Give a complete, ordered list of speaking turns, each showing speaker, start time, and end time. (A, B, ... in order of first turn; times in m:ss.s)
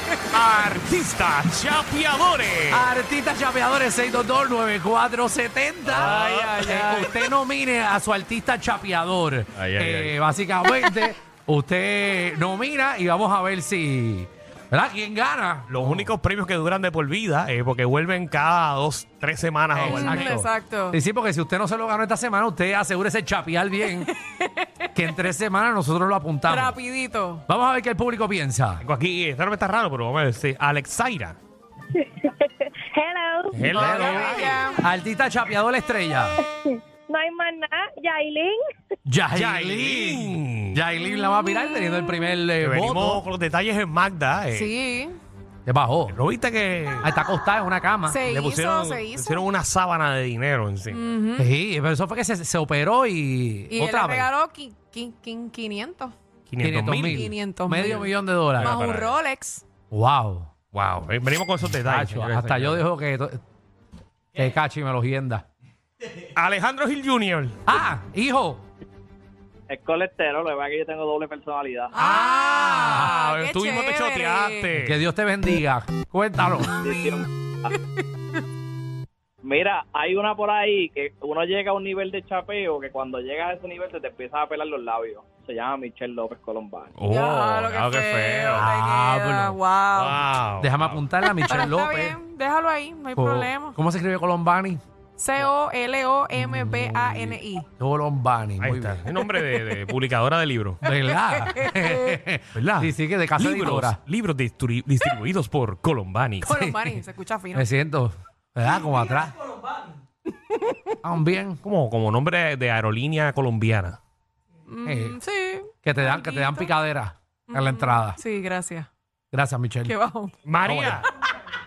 0:00.3-0:02.9 A
0:02.7-0:16.1 B
0:05.8-0:07.1 A
0:09.6-0:10.1 A
0:15.7-0:20.3 A
0:19.7-0:24.1 B
0:19.8-0:21.0 C
0:24.1-0:24.5 C
0:24.9-0:26.8 B
0:26.4-0:27.4 C
0:27.5-0:28.8 B
0:28.8-0:31.4 A
0:31.9-0:32.3 D
0:32.9-0:33.6 D
0:33.5-0:34.6 A
0:33.6-0:36.3 B
0:33.7-0:34.8 C
0:36.6-0:38.6 D
0:39.0-0:43.2 B
0:39.3-0:40.8 A
0:41.2-0:41.5 C
0:42.6-0:44.7 A
0:44.5-0:45.2 C
0:45.6-0:46.2 B
0:46.1-0:47.1 A
0:47.0-0:48.2 B
0:48.1-0:49.4 C
0:48.2-0:51.1 A
0:50.9-0:51.5 C
0:51.4-0:54.3 B
0:53.7-0:56.1 C
0:56.5-0:57.3 A
0:56.6-0:58.8 B
0:57.1-0:59.6 C
0:58.5-0:59.2 A
0:59.9-1:00.5 B
1:00.7-1:02.8 A
1:01.8-1:03.4 B
1:04.4-1:05.4 B
1:06.3-1:07.6 A
1:07.7-1:08.6 B
1:09.7-1:11.9 E
1:11.9-1:14.7 C
1:12.0-1:14.9 A
1:14.7-1:16.7 B
1:16.8-1:17.7 E
1:19.4-1:26.9 E
1:27.0-1:28.7 A
1:27.1-1:30.2 C
1:28.6-1:29.6 B
1:29.9-1:31.0 A
1:30.6-1:32.2 B
1:31.4-1:33.8 C
1:33.2-1:34.8 B
1:35.2-1:37.6 C
1:36.3-1:39.0 B
1:38.6-1:40.8 A
1:40.8-1:44.0 B
1:41.4-1:42.2 C
1:42.5-1:46.5 A
1:46.4-1:47.7 C
1:46.4-1:47.0 B
1:47.5-1:49.4 B
1:51.0-1:51.6 B
1:51.6-1:54.0 A
1:54.7-1:56.7 C
1:54.8-1:55.2 B
1:55.8-1:58.2 B
1:57.5-1:58.9 C
1:59.3-2:00.0 B
1:59.8-2:00.3 C
2:00.4-2:01.1 A
2:00.6-2:01.0 B